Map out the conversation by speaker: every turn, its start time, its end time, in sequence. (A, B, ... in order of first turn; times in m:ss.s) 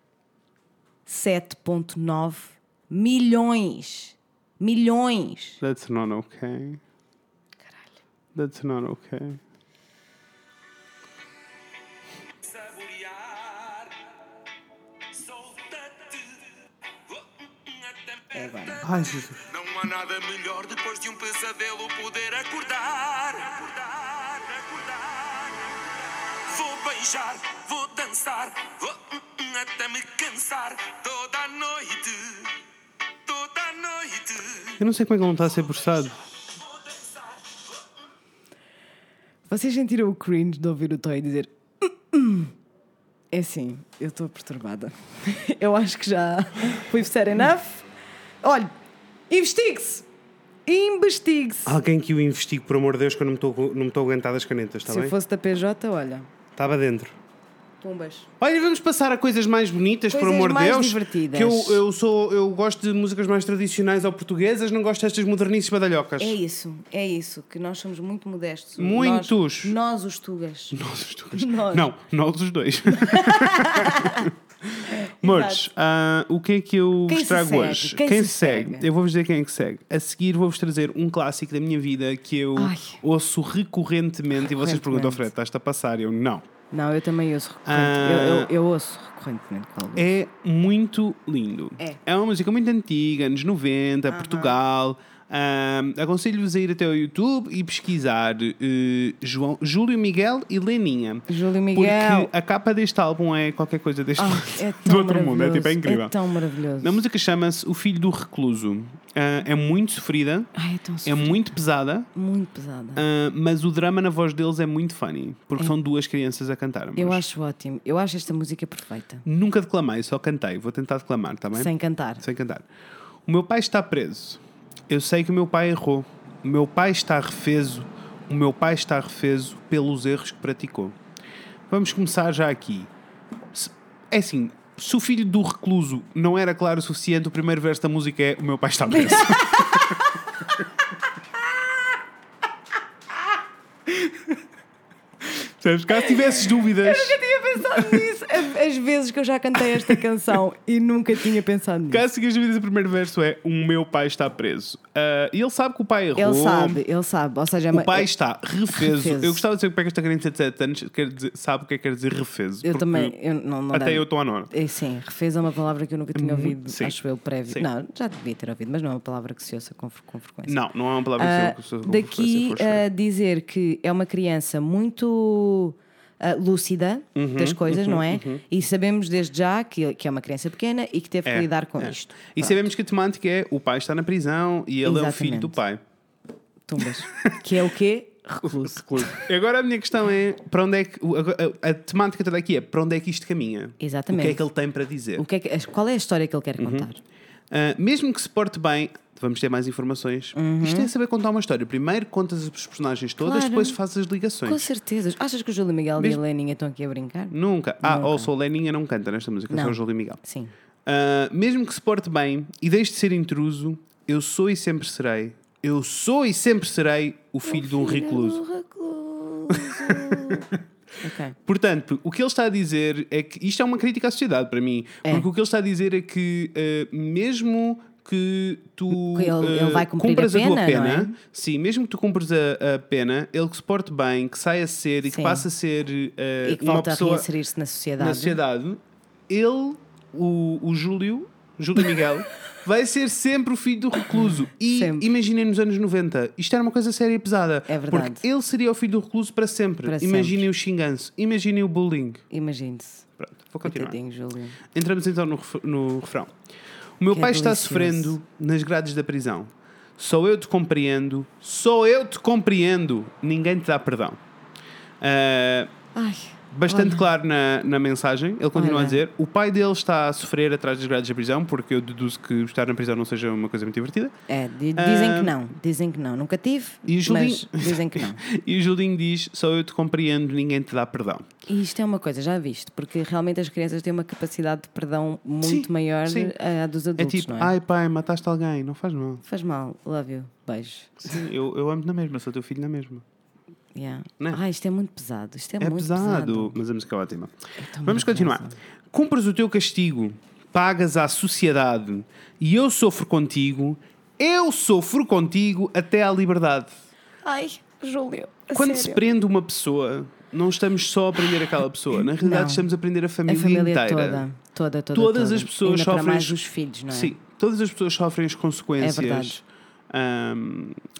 0:01.0-0:05.6 A
0:05.6-0:06.8 B
0:08.3-0:09.4 B
0:12.4-0:14.1 C
0:15.1-0:16.4 C
0:17.1-0:32.6 C
0:18.3-0:18.9 A
0:18.8-0:19.4 B
0:33.2-0:34.8 C
0:34.8-0:36.2 B
0:39.5-0:42.5 A
0:43.3-0:47.8 A
0:48.4-0:48.7 A
0:49.3-0:50.0 A
0:50.6-0:51.8 A
0:51.6-0:55.1 B
0:54.8-0:56.3 A
0:56.6-0:57.2 B
0:57.8-0:58.3 A
0:58.4-1:06.4 B
1:00.1-1:01.8 A
1:06.2-1:10.8 A
1:08.8-1:09.8 B
1:10.7-1:26.4 B
1:11.3-1:11.9 A
1:12.9-1:14.3 A
1:14.9-1:15.6 A
1:17.1-1:18.9 A
1:22.6-1:23.0 A
1:24.3-1:25.3 A
1:26.7-1:30.1 A
1:27.6-1:28.5 B
1:30.0-1:46.1 B
1:34.1-1:34.6 A
1:41.3-1:42.3 A
1:44.2-1:47.0 A
1:46.8-1:50.5 B
1:50.5-1:51.4 A
1:51.0-1:52.1 B
1:52.1-1:53.0 A
1:53.0-1:57.2 B
1:57.0-1:59.2 A
1:59.2-2:02.6 B
2:01.5-2:02.2 A
2:03.2-2:11.0 B
2:11.7-2:12.9 B
2:13.5-2:20.0 B
2:18.9-2:20.1 A
2:23.9-2:24.3 B
2:25.2-2:28.0 B
2:26.0-2:32.0 A
2:31.9-2:36.8 B
2:36.2-2:38.1 A
2:37.7-2:43.1 B
2:38.7-2:39.4 A
2:42.6-2:50.6 A
2:43.7-2:44.5 B
2:46.1-2:47.7 B
2:50.4-2:52.8 B
2:51.2-3:02.6 A
2:57.2-2:58.4 B
3:01.2-3:05.8 B
3:04.8-3:05.6 A
3:06.6-3:09.2 A
3:08.4-3:15.2 B
3:13.8-3:14.4 A
3:15.2-3:17.0 A
3:16.6-3:16.9 B
3:17.5-3:24.6 B
3:20.3-3:20.9 A
3:23.2-3:23.8 A
3:24.4-3:28.3 A
3:27.3-3:30.2 B
3:29.5-3:30.5 A
3:30.8-3:38.4 B
3:37.4-3:41.4 A
3:39.5-3:40.4 B
3:41.4-3:57.3 B
3:48.9-3:51.1 A
3:55.1-3:55.4 A
3:56.4-3:58.4 A
3:58.0-4:12.2 B
4:04.1-4:05.1 A
4:07.7-4:08.2 A
4:09.8-4:10.5 A
4:12.3-4:13.1 A
4:13.2-4:14.0 B
4:13.6-4:14.6 A
4:14.7-4:16.3 B
4:17.0-4:24.2 B
4:17.1-4:18.2 A
4:25.0-4:25.7 B
4:25.9-4:27.0 A
4:26.5-4:34.1 B
4:28.5-4:29.0 A
4:34.3-4:38.2 A
4:34.7-4:35.4 B
4:36.8-4:41.3 B
4:41.5-4:47.5 A
4:45.4-4:46.3 B
4:47.0-4:49.2 B
4:49.2-4:51.2 A
4:51.0-4:53.0 B
4:53.7-4:56.6 A
4:55.6-5:06.7 B
4:57.6-4:58.6 A
5:07.2-5:09.0 A
5:08.5-5:14.2 B
5:12.1-5:12.6 A
5:13.3-5:17.1 A
5:14.9-5:20.8 B
5:18.8-5:19.4 A